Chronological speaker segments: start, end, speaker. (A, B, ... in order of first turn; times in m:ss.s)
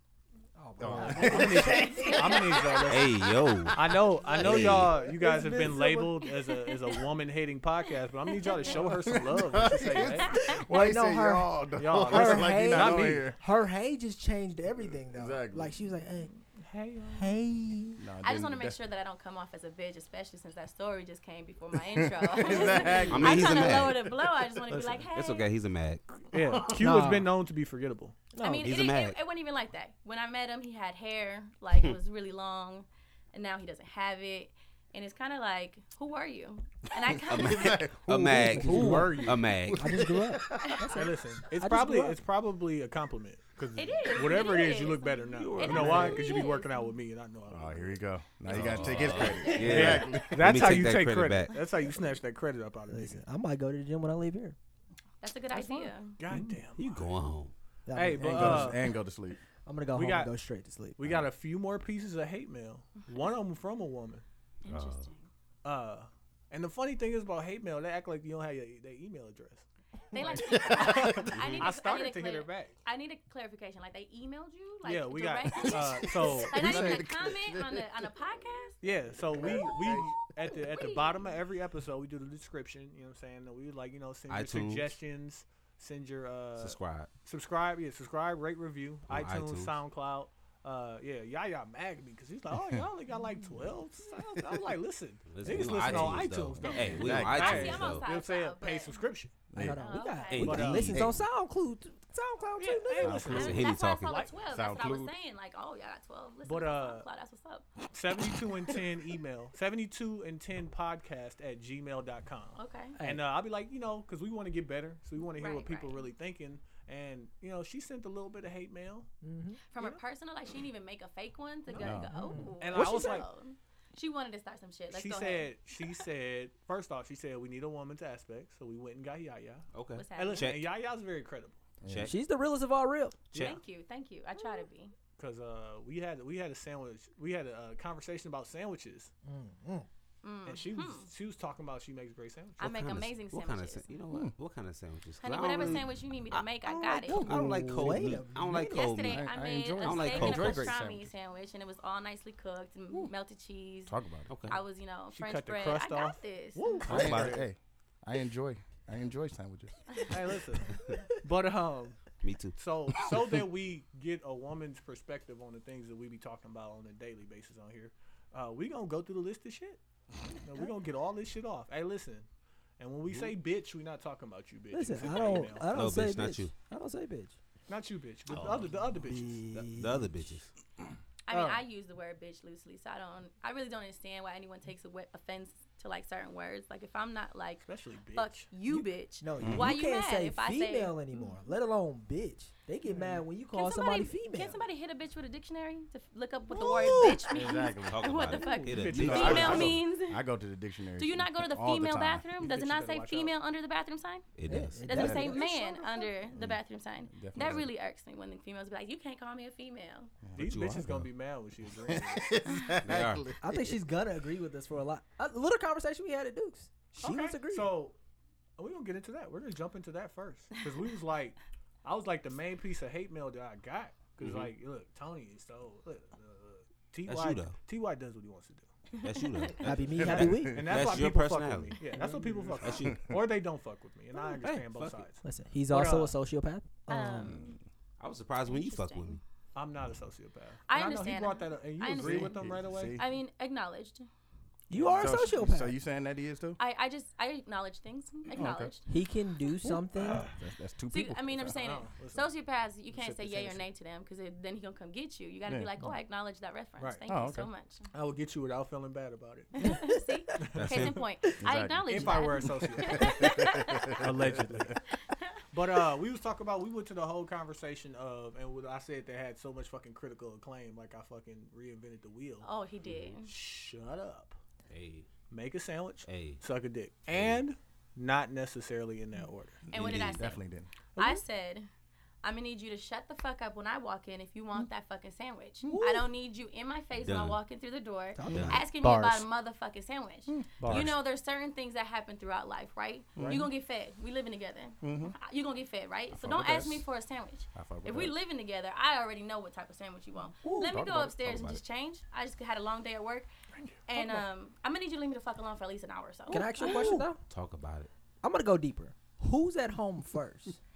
0:00.6-0:02.4 A
0:00.8-0:02.8 B
0:00.8-0:03.2 C
0:01.6-0:02.9 D
0:02.9-0:05.0 E
0:03.7-0:10.4 C
0:04.4-0:06.2 B
0:05.4-0:05.7 A
0:08.3-0:09.0 D
0:09.0-0:13.4 B
0:10.2-0:10.4 D
0:10.3-0:16.3 A
0:11.8-0:13.3 C
0:14.7-0:15.7 B
0:16.3-0:17.4 C
0:17.1-0:18.0 A
0:18.0-0:18.8 B
0:18.2-0:25.5 D
0:21.7-0:24.5 B
0:23.1-0:24.1 E
0:24.7-0:25.1 C
0:25.1-0:26.1 E
0:26.3-0:28.2 C
0:26.5-0:26.8 B
0:26.8-0:27.3 A
0:28.4-0:28.7 A
0:28.4-0:37.8 D
0:28.6-0:29.2 E
0:37.0-0:40.9 B
0:37.3-0:40.1 E
0:38.2-0:42.2 A
0:38.5-0:39.4 C
0:40.9-0:53.2 C
0:43.8-0:46.9 D
0:45.3-0:46.3 E
0:47.5-0:50.7 B
0:48.5-0:51.6 E
0:48.9-0:50.2 D
0:52.9-0:54.6 A
0:55.2-0:56.2 D
0:55.5-0:57.1 C
0:56.8-0:57.5 E
0:57.9-0:58.8 A
0:57.9-0:58.9 C
0:58.2-0:59.4 B
0:59.7-1:01.0 A
0:59.9-1:00.3 C
1:01.0-1:04.2 C
1:01.0-1:01.3 B
1:04.6-1:05.3 D
1:04.7-1:05.1 E
1:05.6-1:12.7 C
1:10.1-1:18.8 D
1:10.2-1:11.4 B
1:11.3-1:11.7 E
1:14.8-1:17.1 C
1:16.0-1:17.9 B
1:18.8-1:39.5 C
1:19.4-1:20.1 B
1:20.6-1:21.3 D
1:24.3-1:25.0 E
1:26.6-1:27.1 E
1:29.1-1:29.8 E
1:32.6-1:32.8 B
1:34.1-1:34.6 B
1:35.3-1:38.0 E
1:35.4-1:36.4 B
1:36.6-1:39.0 D
1:37.0-1:37.8 B
1:39.5-1:39.8 B
1:39.6-1:43.3 A
1:39.8-1:40.7 D
1:40.3-1:41.1 E
1:40.4-1:41.3 B
1:40.4-1:40.9 C
1:42.6-1:44.3 C
1:43.0-1:43.6 B
1:43.3-1:44.2 E
1:43.3-1:47.7 D
1:44.5-1:45.1 B
1:46.4-1:47.1 C
1:47.9-1:59.1 C
1:52.6-1:53.0 D
1:55.4-1:56.1 D
1:59.2-1:59.6 A
1:59.7-2:06.0 D
2:01.8-2:02.4 B
2:02.1-2:03.2 A
2:02.6-2:03.3 C
2:04.9-2:11.6 C
2:09.7-2:10.7 E
2:10.0-2:10.5 D
2:11.8-2:12.1 B
2:11.9-2:12.2 E
2:12.0-2:13.2 A
2:13.3-2:13.6 E
2:13.4-2:14.9 D
2:15.2-2:19.1 C
2:19.2-2:19.9 A
2:20.2-2:21.1 D
2:20.5-2:22.6 C
2:22.6-2:23.9 D
2:22.6-2:29.3 E
2:25.2-2:27.3 D
2:27.0-2:28.8 A
2:27.1-2:28.0 B
2:28.6-2:36.8 D
2:29.1-2:31.1 B
2:29.8-2:30.7 E
2:33.9-2:34.3 B
2:34.3-2:34.6 E
2:35.1-2:37.5 C
2:36.8-2:40.2 B
2:36.9-2:37.4 E
2:40.1-2:42.0 C
2:42.2-2:42.6 E
2:42.6-2:49.8 C
2:43.0-2:43.3 B
2:50.4-2:52.3 C
2:52.8-2:55.8 C
2:53.1-2:53.3 E
2:54.7-2:57.4 A
2:55.7-2:56.5 E
2:57.7-2:59.4 C
2:58.3-2:58.7 E
2:59.1-3:00.1 A
2:59.5-3:00.5 E
3:01.3-3:11.4 D
3:01.3-3:01.6 C
3:07.6-3:08.9 C
3:09.2-3:14.6 A
3:09.4-3:09.7 B
3:12.8-3:13.2 C
3:13.5-3:20.3 D
3:16.5-3:18.3 B
3:16.7-3:17.3 C
3:17.9-3:19.8 E
3:18.6-3:19.8 C
3:18.9-3:22.2 B
3:21.0-3:30.1 D
3:22.3-3:23.4 C
3:24.4-3:24.9 E
3:24.5-3:26.1 A
3:24.8-3:25.4 B
3:26.3-3:26.6 B
3:27.1-3:27.7 B
3:30.2-3:31.1 B
3:30.4-3:32.5 C
3:30.4-3:31.0 E
3:31.9-3:33.8 B
3:32.8-3:33.2 E
3:33.4-3:37.7 A
3:37.0-3:38.0 C
3:38.6-3:48.7 C
3:44.2-3:44.5 E
3:47.1-3:47.6 E
3:48.9-3:49.6 D
3:49.0-3:51.8 E
3:49.6-3:50.8 A
3:50.0-3:51.0 B
3:50.0-3:56.2 C
3:52.0-3:52.6 A
3:52.6-3:53.1 E
3:52.8-3:53.0 B
3:54.2-3:54.6 A
3:55.2-3:57.4 A
3:56.9-3:57.6 D
3:58.0-3:59.2 E
3:58.5-3:59.2 D
3:59.6-4:03.0 C
4:00.7-4:04.1 D
4:01.9-4:03.0 B
4:04.7-4:05.8 A
4:04.7-4:05.3 C
4:05.0-4:06.6 B
4:06.6-4:08.9 D
4:08.3-4:08.7 B
4:08.9-4:10.3 A
4:09.6-4:11.6 B
4:10.9-4:17.9 D
4:11.5-4:12.3 C
4:12.9-4:13.7 C
4:17.1-4:17.5 B
4:17.9-4:21.0 C
4:19.6-4:24.0 D
4:20.5-4:21.0 E
4:21.4-4:24.8 B
4:21.9-4:24.8 C
4:25.1-4:25.4 D
4:25.5-4:32.5 C
4:32.4-4:33.3 D
4:33.2-4:34.4 C
4:34.7-4:35.1 E
4:35.3-4:39.6 C
4:36.1-4:36.4 E
4:37.1-4:37.4 E
4:39.7-4:40.7 B
4:39.7-4:40.4 D
4:41.0-4:41.2 C
4:41.0-4:41.7 D
4:42.2-5:03.3 D
4:45.6-4:45.9 B
4:45.7-4:46.0 A
4:47.0-4:47.4 E
4:48.2-4:48.7 A
4:48.3-4:48.6 E
4:48.7-4:49.3 C
4:50.3-4:50.9 B
4:50.6-4:50.9 C
4:50.7-4:51.0 E
4:53.2-4:53.5 B
4:53.2-4:53.5 C
4:54.8-4:55.2 B
4:56.1-4:56.9 B
4:57.6-4:58.2 B
5:00.4-5:01.6 B
5:01.3-5:01.6 E
5:03.5-5:04.2 C
5:03.9-5:07.0 D
5:06.3-5:07.2 A
5:06.7-5:07.9 E
5:08.2-5:10.6 A